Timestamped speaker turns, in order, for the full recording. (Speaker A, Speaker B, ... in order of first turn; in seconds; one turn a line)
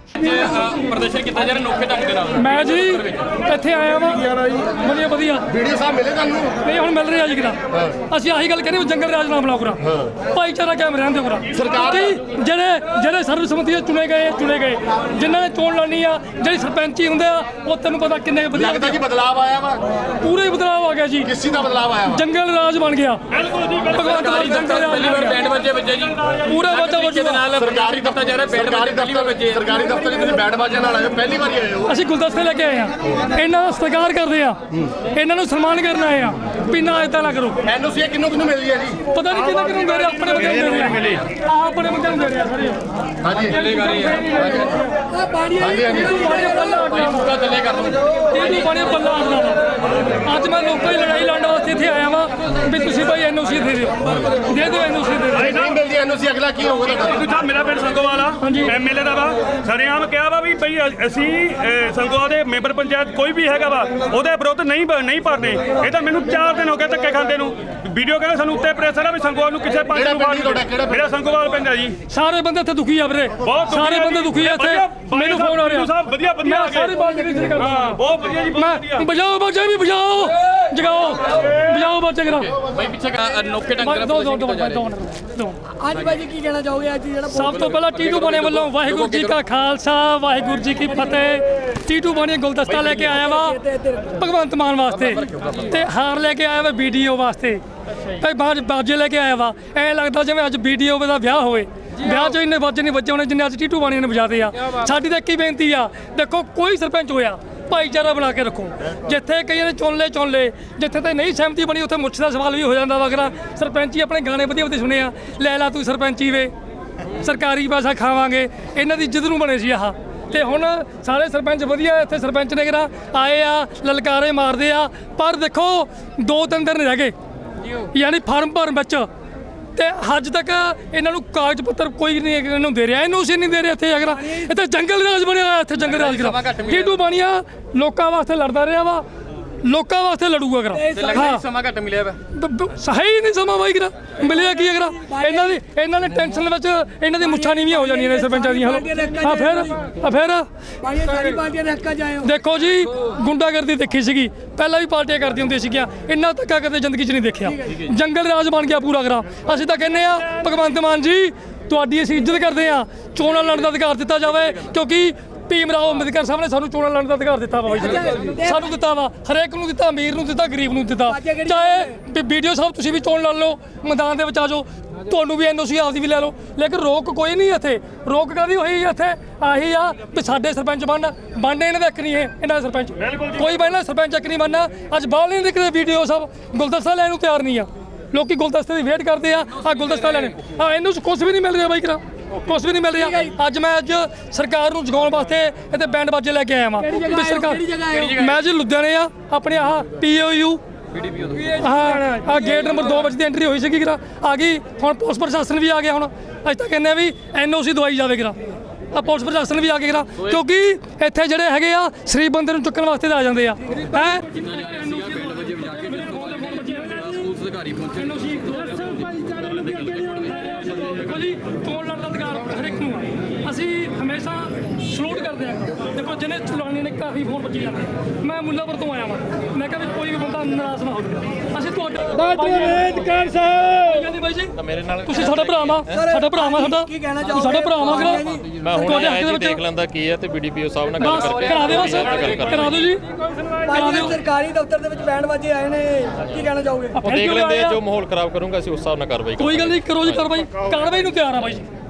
Speaker A: 0.1-3.4
Speaker B: 2.3-5.6
Speaker C: 5.6-6.5
Speaker B: 6.6-19.1
Speaker C: 11.6-12.0
Speaker C: 18.6-19.8
Speaker B: 20.2-23.2
Speaker C: 21.3-22.2
Speaker D: 23.4-24.1
Speaker B: 23.9-25.5
Speaker A: 24.1-29.8
Speaker B: 26.4-27.6
Speaker C: 27.6-31.9
Speaker B: 31.9-37.6
Speaker C: 37.7-39.0
Speaker B: 39.1-44.9
Speaker C: 43.2-43.6
Speaker A: 43.5-44.6
Speaker E: 45.1-46.9
Speaker C: 45.6-46.0
Speaker B: 46.0-47.4
Speaker A: 46.9-48.5
Speaker B: 48.3-49.6
Speaker B: 50.1-55.5
Speaker D: 55.3-55.8
Speaker C: 55.5-57.1
Speaker D: 56.9-72.0
Speaker B: 58.4-58.7
Speaker C: 69.9-71.0
Speaker B: 72.1-78.0
Speaker D: 73.4-77.0
Speaker D: 77.5-79.0
Speaker B: 78.5-82.6
Speaker A: 82.4-84.9
Speaker B: 83.7-85.6
Speaker E: 85.7-87.8
Speaker B: 87.3-93.6
Speaker A: 87.8-89.4
Speaker E: 93.0-94.2
Speaker B: 94.1-97.6
Speaker A: 95.1-95.7
Speaker B: 98.2-116.5
Speaker B: 117.2-127.1
Speaker B: 127.9-129.1
Speaker B: 129.8-139.1
Speaker A: 135.8-136.9
Speaker B: 139.6-141.5
Speaker E: 140.7-141.3
Speaker A: 140.9-142.2
Speaker B: 142.3-150.4
Speaker E: 144.2-145.6
Speaker E: 147.3-149.8
Speaker E: 150.8-152.3
Speaker B: 152.2-197.6
Speaker E: 167.8-168.7
Speaker E: 171.1-171.9
Speaker E: 193.0-193.3
Speaker E: 196.8-198.2
Speaker A: 197.9-198.3
Speaker B: 198.1-200.6
Speaker A: 200.9-201.5
Speaker E: 201.4-202.3
Speaker B: 201.5-208.4
Speaker B: 208.9-217.3
Speaker A: 214.3-221.0
Speaker B: 217.9-239.6
Speaker F: 234.5-236.0
Speaker E: 235.9-238.5
Speaker F: 238.6-242.9
Speaker B: 241.0-243.0
Speaker A: 241.5-242.3
Speaker B: 243.6-244.2
Speaker E: 243.6-247.0
Speaker F: 246.2-246.5
Speaker B: 246.9-247.8
Speaker F: 247.0-250.3
Speaker B: 249.4-251.7